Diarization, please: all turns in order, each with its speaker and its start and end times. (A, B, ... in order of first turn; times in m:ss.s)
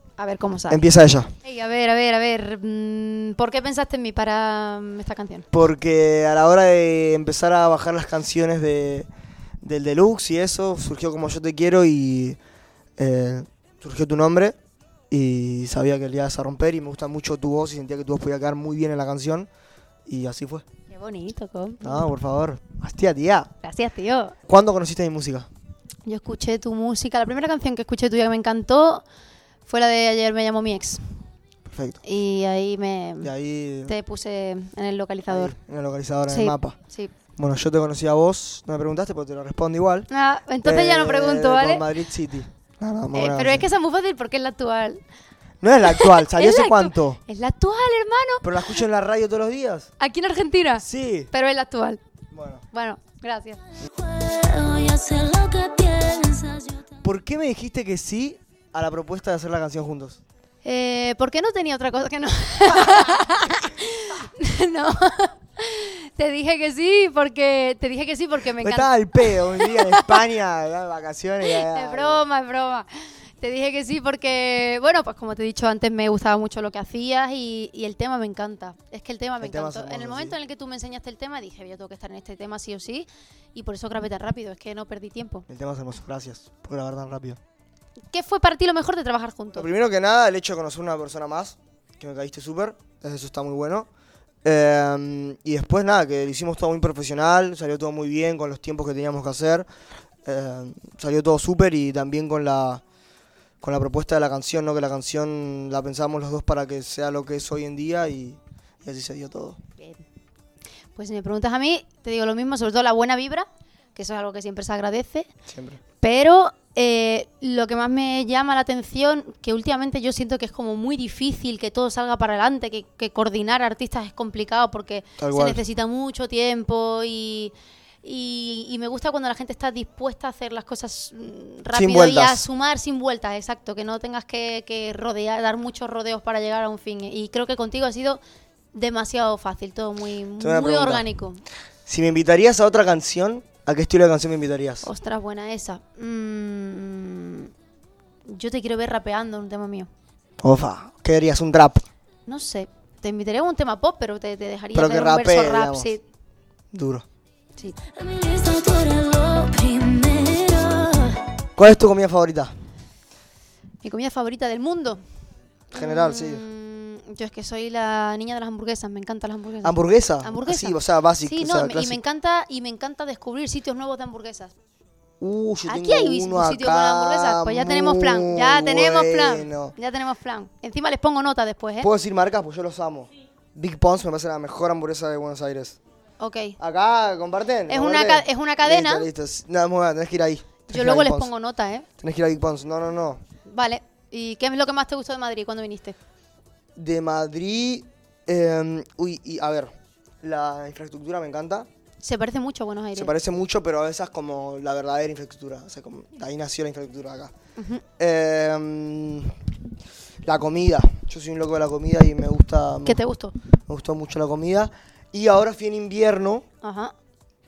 0:00.2-0:00.8 A
0:00.7-0:01.3 B
0:01.4-0:05.5 A
0:05.5-0:09.1 B
0:09.6-0:12.4 B
0:13.0-0:14.6 B
0:15.1-0:19.5 B
0:20.1-0:20.6 B
0:20.9-0:22.1 A
0:21.8-0:23.5 B
0:23.6-0:24.3 A
0:24.5-0:25.5 B
0:26.0-0:29.0 A
0:29.6-0:31.3 A
0:31.7-0:32.0 B
0:32.0-0:33.3 A
0:33.2-0:33.9 B
0:33.8-0:35.6 A
0:35.3-0:36.8 B
0:36.3-0:37.1 A
0:37.4-0:40.1 B
0:40.1-0:41.8 A
0:40.6-0:43.7 B
0:43.1-0:45.0 A
0:45.6-0:47.2 B
0:45.9-0:48.8 A
0:48.4-0:49.9 B
0:50.0-0:52.0 A
0:50.8-0:51.3 B
0:52.3-0:52.6 B
0:52.7-0:53.6 A
0:54.0-0:56.5 C
0:55.0-0:56.6 A
0:57.0-1:00.2 B
1:00.6-1:10.2 A
1:08.6-1:12.2 B
1:11.4-1:25.4 A
1:19.4-1:20.4 B
1:25.5-1:27.4 B
1:28.1-1:29.7 A
1:29.5-1:33.9 B
1:34.4-1:39.7 B
1:40.2-1:42.8 B
1:43.6-1:49.6 B
1:49.8-1:50.0 A
1:51.0-1:55.3 A
1:55.5-1:55.8 B
1:56.0-2:18.2 A
2:05.2-2:05.6 B
2:11.7-2:12.4 B
2:18.7-2:21.4 A
2:20.4-2:21.1 B
2:21.9-2:24.9 B
2:24.8-2:27.5 A
2:28.3-2:29.9 A
2:30.4-2:31.8 B
2:32.2-2:36.0 A
2:34.7-2:35.9 B
2:36.7-2:37.0 B
2:37.9-2:41.0 C
2:40.7-2:41.1 A
2:41.6-2:42.5 B
2:43.8-2:45.0 A
2:45.7-2:46.4 B
2:45.7-2:54.5 A
2:49.6-2:52.0 B
2:55.2-2:59.7 B
2:55.7-3:01.9 A
3:01.8-3:05.8 B
3:06.2-3:06.6 A
3:06.6-3:11.3 B
3:07.7-3:09.1 A
3:10.7-3:11.8 A
3:12.0-3:13.2 B
3:13.4-3:16.0 A
3:16.8-3:21.7 B
3:22.0-3:23.1 A
3:22.9-3:27.3 B
3:27.6-3:27.8 A
3:28.0-3:29.4 B
3:30.2-3:33.0 B
3:32.8-3:33.3 A
3:33.7-3:36.4 B
3:36.6-3:36.9 A